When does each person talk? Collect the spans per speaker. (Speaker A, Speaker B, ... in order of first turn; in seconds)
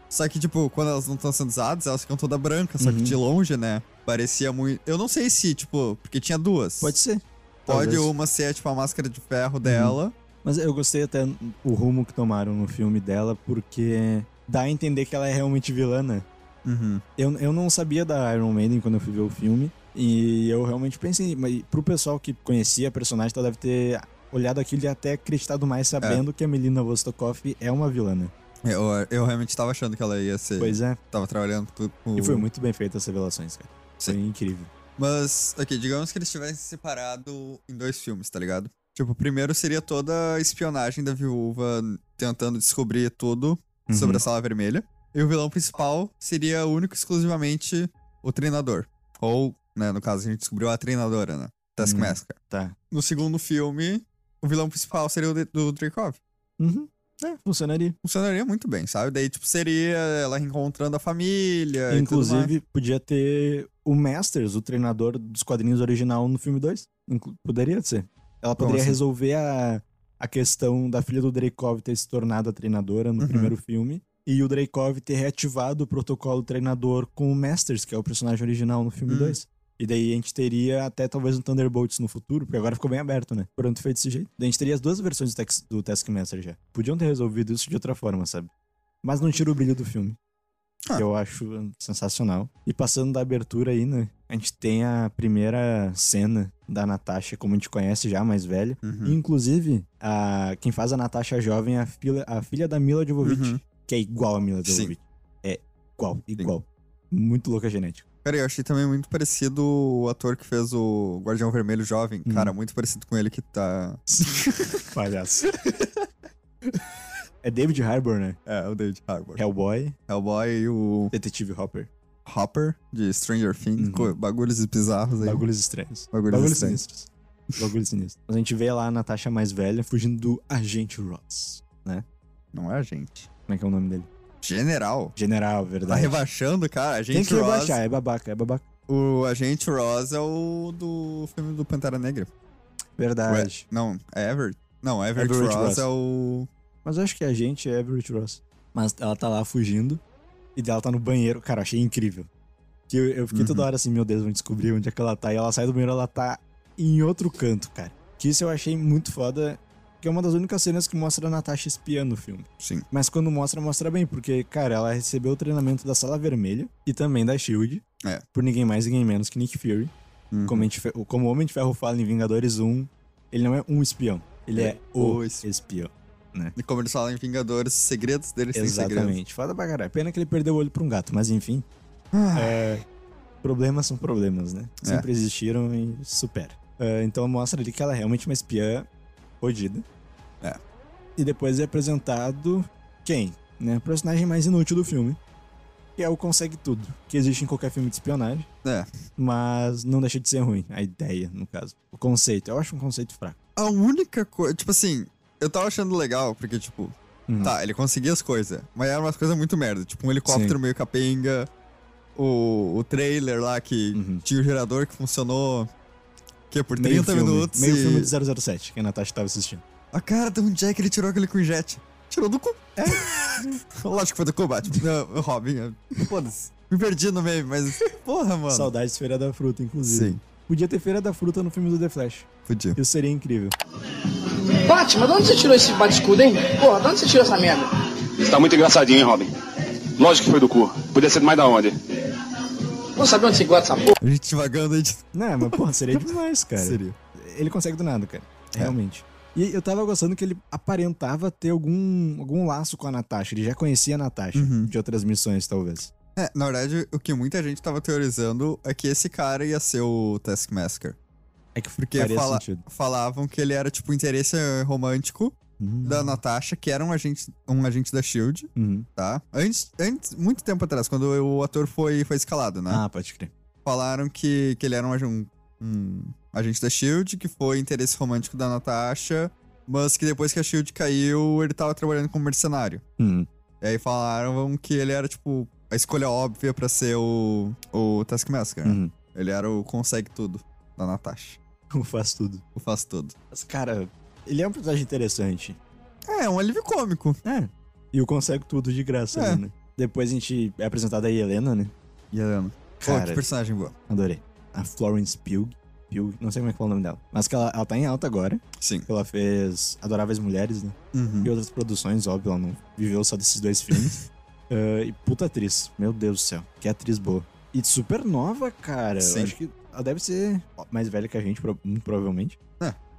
Speaker A: 0.1-7.0, 7.7-10.2, 16.6-17.0, 28.6-32.5, 35.0-52.4, 52.9-56.2, 58.0-62.5, 68.6-69.0, 73.2-73.5, 79.1-79.4, 98.8-99.2, 103.2-103.6, 104.7-104.9, 108.2-114.8, 115.4-116.1, 118.5-119.4, 120.1-121.1, 122.3-125.5, 126.1-126.8, 132.5-133.3, 134.4-135.2, 135.9-137.8, 138.9-142.3, 143.3-146.5, 153.3-153.7, 162.6-162.9, 170.3-170.7, 174.6-175.5, 176.6-179.2, 182.1-182.6, 198.6-198.9, 203.6-211.5, 212.2-215.7, 216.5-218.1, 219.9-228.7, 229.8-230.2, 232.5-232.8, 244.0-247.0, 254.3-254.7, 256.2-261.0, 261.9-272.8, 273.6-282.8, 283.6-291.4, 292.6-293.1, 296.1-297.2, 299.1-299.4, 302.1-303.8, 308.6-308.9, 310.9-311.3, 313.7-314.0, 319.0-319.3
Speaker B: 2.8-3.2, 6.8-8.1, 9.6-16.3, 17.2-28.3, 30.6-31.0, 32.2-34.7, 43.9-44.2, 51.8-52.8, 56.6-58.0, 61.9-88.5, 89.0-90.2, 90.9-108.0, 112.3-112.5, 114.1-115.5, 117.4-118.4, 119.4-120.0, 121.1-121.9, 123.8-124.2, 125.2-132.1, 133.5-134.1, 135.2-136.2, 137.1-138.7, 143.0-143.6, 145.2-145.9, 146.8-150.0, 150.6-152.3, 152.9-169.9, 170.4-176.6, 178.5-181.7, 182.3-182.8, 183.4-188.9, 189.4-189.8, 191.2-195.2, 196.0-198.5, 199.2-203.4, 207.3-207.6, 210.3-210.6, 213.9-214.2, 216.8-219.6, 222.8-223.6, 228.5-233.6, 245.1-255.9, 261.6-262.7, 265.6-266.2, 268.6-268.9, 272.7-273.3, 283.0-283.3, 288.6-288.9, 291.7-292.4, 293.3-295.6, 297.2-301.7, 302.8-303.2, 303.9-322.4
Speaker C: 234.7-237.7, 243.0-243.9
Speaker D: 237.7-239.3, 240.0-241.8